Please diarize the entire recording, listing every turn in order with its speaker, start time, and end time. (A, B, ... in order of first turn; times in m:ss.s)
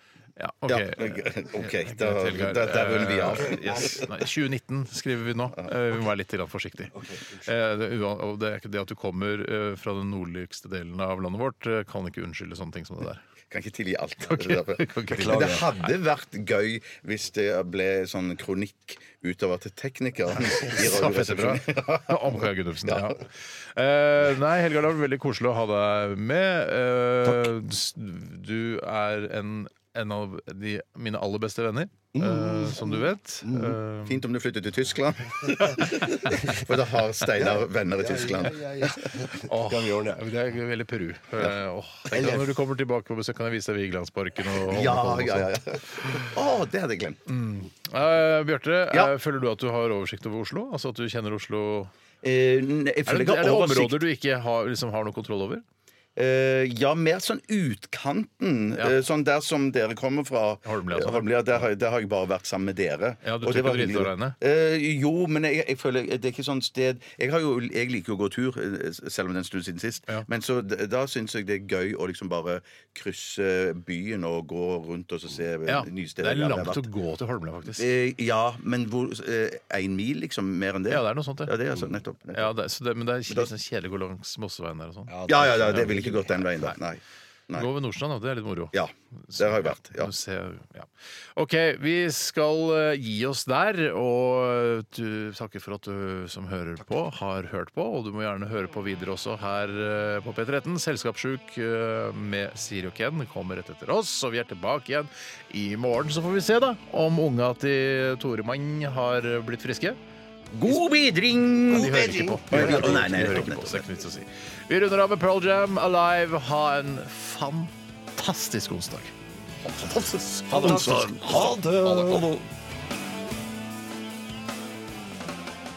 0:00.4-0:13.2 A
0:00.7-0:04.0 B
0:06.9-0:07.5 C
0:13.5-0:23.1 B
0:14.3-0:15.6 A
0:15.1-0:15.6 C
0:20.5-0:34.2 A
0:32.1-0:33.8 C
0:34.0-0:38.9 B
0:35.7-0:36.3 A
0:37.4-0:40.2 C
0:39.5-0:45.5 A
0:42.1-0:42.6 C
0:44.6-0:47.2 B
0:47.2-0:51.9 A
0:52.2-0:54.0 B
0:53.0-0:55.6 A
0:56.2-1:16.9 B
1:00.6-1:01.6 A
1:03.2-1:04.4 A
1:15.7-1:17.9 A
1:17.8-1:22.5 B
1:20.9-1:21.5 A
1:22.3-1:26.8 A
1:25.1-1:26.5 C
1:25.3-1:27.7 B
1:27.6-1:28.7 A
1:28.7-1:30.1 B
1:29.3-1:50.0 A
1:50.5-1:53.8 B
1:51.7-1:53.4 C
1:51.7-1:59.1 A
1:59.8-2:01.5 B
2:00.3-2:02.2 A
2:00.5-2:02.5 C